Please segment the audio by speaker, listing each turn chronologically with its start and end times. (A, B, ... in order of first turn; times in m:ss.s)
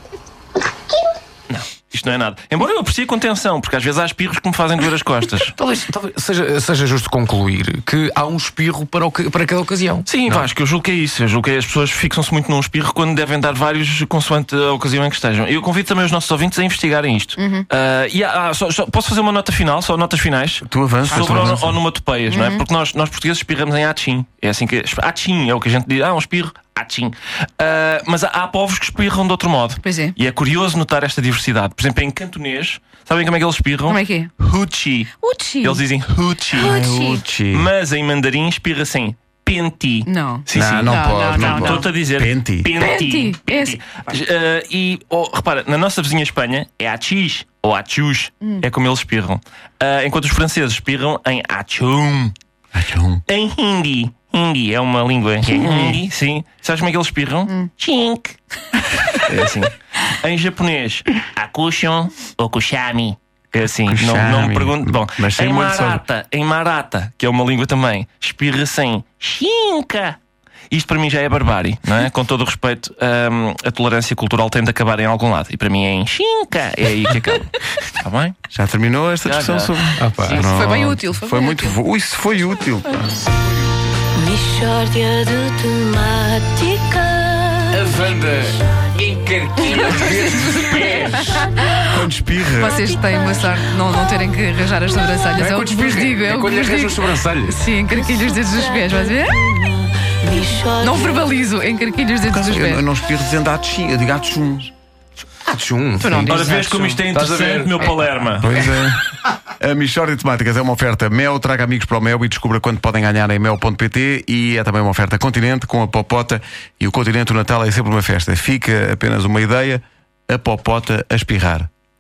0:01.5-0:05.6 A
0:05.6-0:10.5 B
0:10.1-0:36.8 A
0:17.4-0:17.7 C
0:20.6-0:21.8 D
0:22.3-0:22.7 C
0:29.8-0:30.2 C
0:33.9-0:34.3 C
0:35.2-0:35.8 C
0:36.5-0:37.3 C
0:36.6-0:37.7 D
0:37.5-0:52.3 A
0:40.1-0:41.9 C
0:40.5-0:42.7 D
0:42.8-0:43.8 C
0:52.7-0:53.2 D
0:53.3-0:58.4 A
0:55.5-0:56.0 D
0:59.1-1:10.2 A
1:03.8-1:06.0 D
1:10.7-1:18.4 A
1:18.5-1:23.2 D
1:19.2-1:19.8 A
1:20.0-1:20.4 B
1:20.3-1:21.8 C
1:24.1-1:27.8 E
1:27.7-1:31.4 B
1:29.6-1:39.5 C
1:30.7-1:31.2 E
1:31.8-1:32.8 D
1:32.8-1:33.4 E
1:35.4-1:37.6 B
1:38.2-1:41.3 E
1:40.8-1:42.8 C
1:42.3-1:44.7 D
1:45.4-1:46.6 B
1:46.0-1:47.0 C
1:46.2-1:48.5 A
1:47.1-1:48.9 B
1:48.4-2:01.7 D